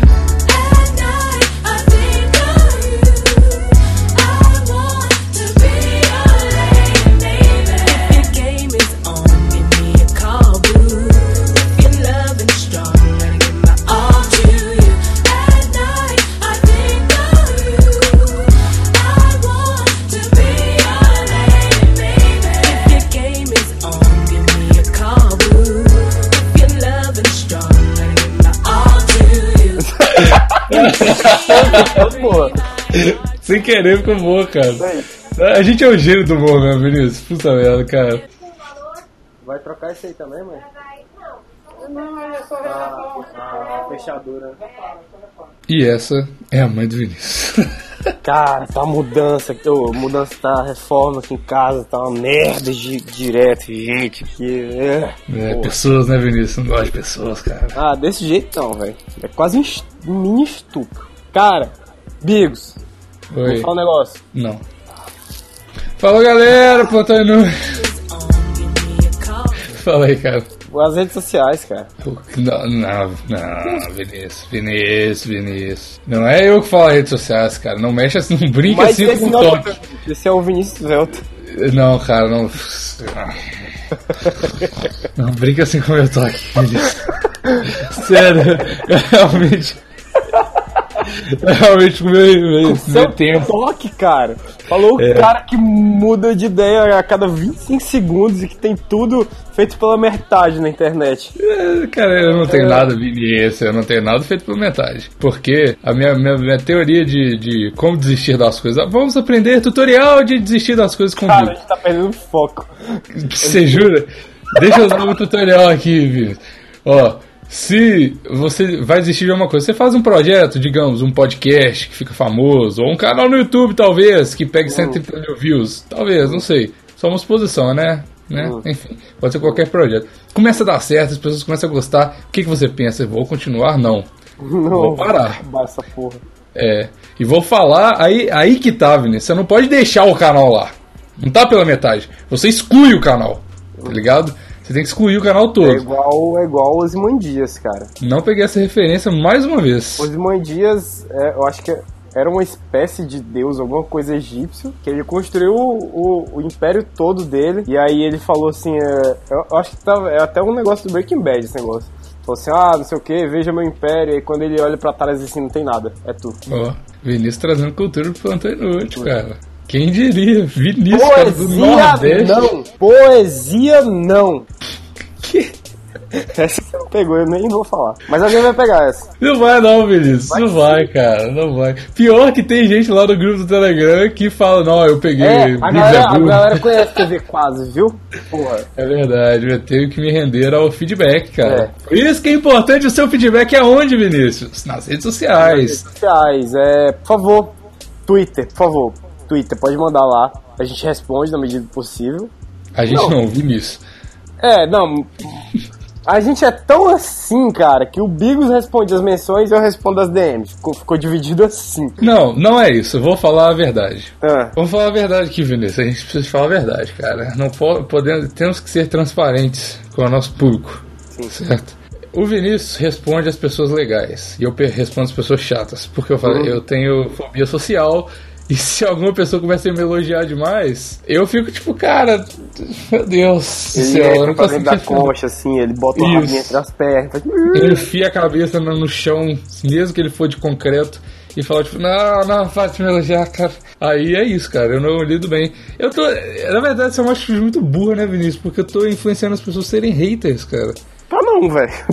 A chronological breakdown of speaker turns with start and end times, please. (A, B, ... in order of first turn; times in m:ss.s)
0:00.4-0:29.9 A
0:29.8-0:32.6 B
0:30.1-0:32.0 C
0:31.1-0:32.5 A
0:32.9-0:38.2 C
0:34.8-0:35.0 B
0:39.4-0:40.6 B
0:42.1-0:44.9 B
0:45.7-0:47.6 C
0:48.2-0:55.7 B
0:55.3-0:57.8 C
0:57.7-1:02.8 B
1:03.3-1:03.7 C
1:03.4-1:04.2 B
1:04.3-1:04.6 C
1:06.0-1:07.8 C
1:07.6-1:09.7 A
1:09.6-1:10.5 C
1:10.7-1:11.9 B
1:12.0-1:19.7 C
1:18.7-1:21.2 B
1:21.4-1:23.6 C
1:25.1-1:29.8 C
1:31.0-1:33.5 C
1:32.6-1:41.3 B
1:35.0-1:35.3 C
1:41.4-1:51.5 C
1:42.4-1:42.9 B
1:51.2-1:53.9 B
1:53.1-2:14.1 C
1:54.6-1:55.0 B
2:04.6-2:05.0 B
2:08.3-2:08.6 B
2:14.4-2:16.2 B
2:14.7-2:15.4 C
2:16.5-2:25.8 C
2:25.6-2:27.9 B
2:28.0-2:30.1 C
2:30.0-2:46.4 B
2:46.5-2:52.5 C
2:50.9-2:54.5 B
2:55.2-2:55.5 C
2:56.3-2:59.1 B
2:59.2-3:06.9 C
3:00.3-3:00.8 B
3:05.2-3:08.7 B
3:08.8-3:15.8 C
3:11.4-3:11.7 B
3:15.4-3:17.5 B
3:18.1-3:22.3 B
3:22.8-3:23.8 C
3:22.9-3:23.2 B
3:24.4-3:25.2 B
3:26.0-3:32.0 B
3:32.0-3:55.1 C
3:34.2-3:34.6 B
3:46.2-3:46.6 B
3:53.7-3:57.9 B
3:56.0-3:56.6 C
3:57.5-4:10.8 C
4:11.1-4:11.7 B